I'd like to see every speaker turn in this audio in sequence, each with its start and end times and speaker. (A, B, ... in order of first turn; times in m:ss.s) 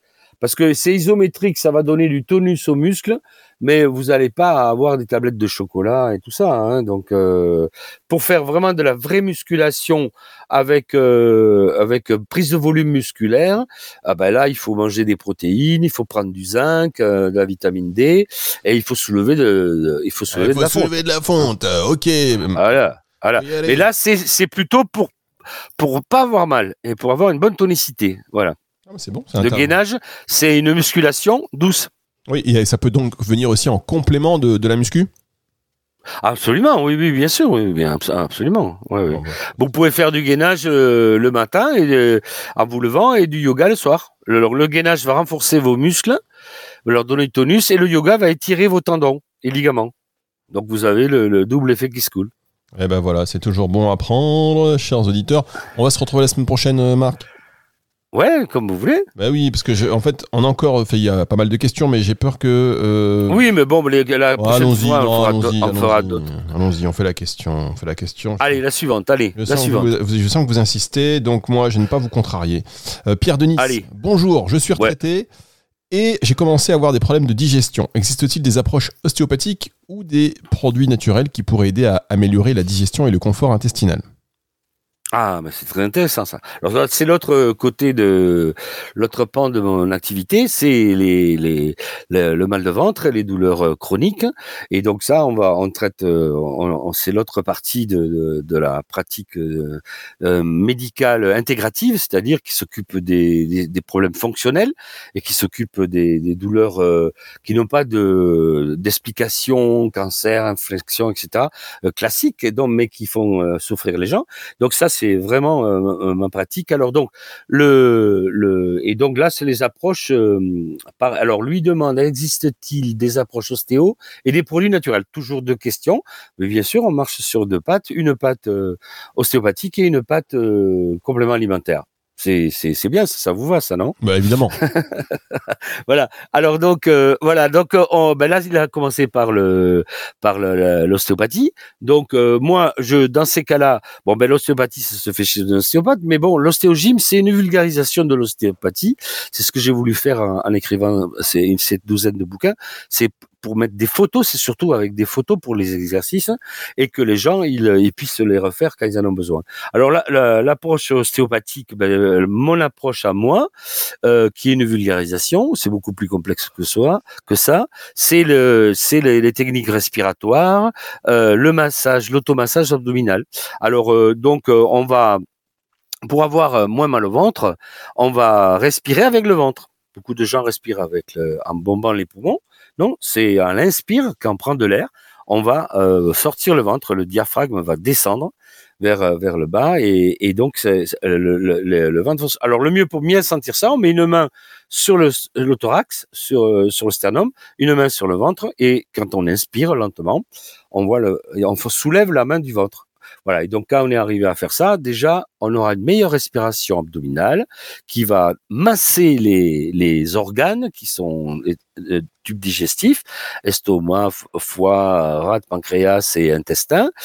0:00.4-0:20.9 A
0:20.3-0:22.6 B
0:22.5-0:25.1 A
0:23.4-0:23.8 B
0:25.8-0:28.5 A
0:28.9-0:29.7 B
0:29.4-0:31.9 A
0:32.3-0:35.1 B
0:36.2-0:46.2 A
0:39.1-0:39.4 B
0:46.8-0:49.9 A
0:50.5-0:52.3 A
0:52.7-0:57.2 B
0:58.1-0:59.1 A
0:59.2-1:03.4 B
1:03.3-1:06.2 A
1:04.4-1:08.5 B
1:08.4-1:09.9 A
1:09.4-1:15.3 B
1:13.6-1:13.8 A
1:15.9-1:24.0 B
1:25.1-2:14.0 A
2:14.0-2:14.6 B
2:14.6-2:43.5 A
2:44.0-2:55.2 A
2:56.1-3:36.9 A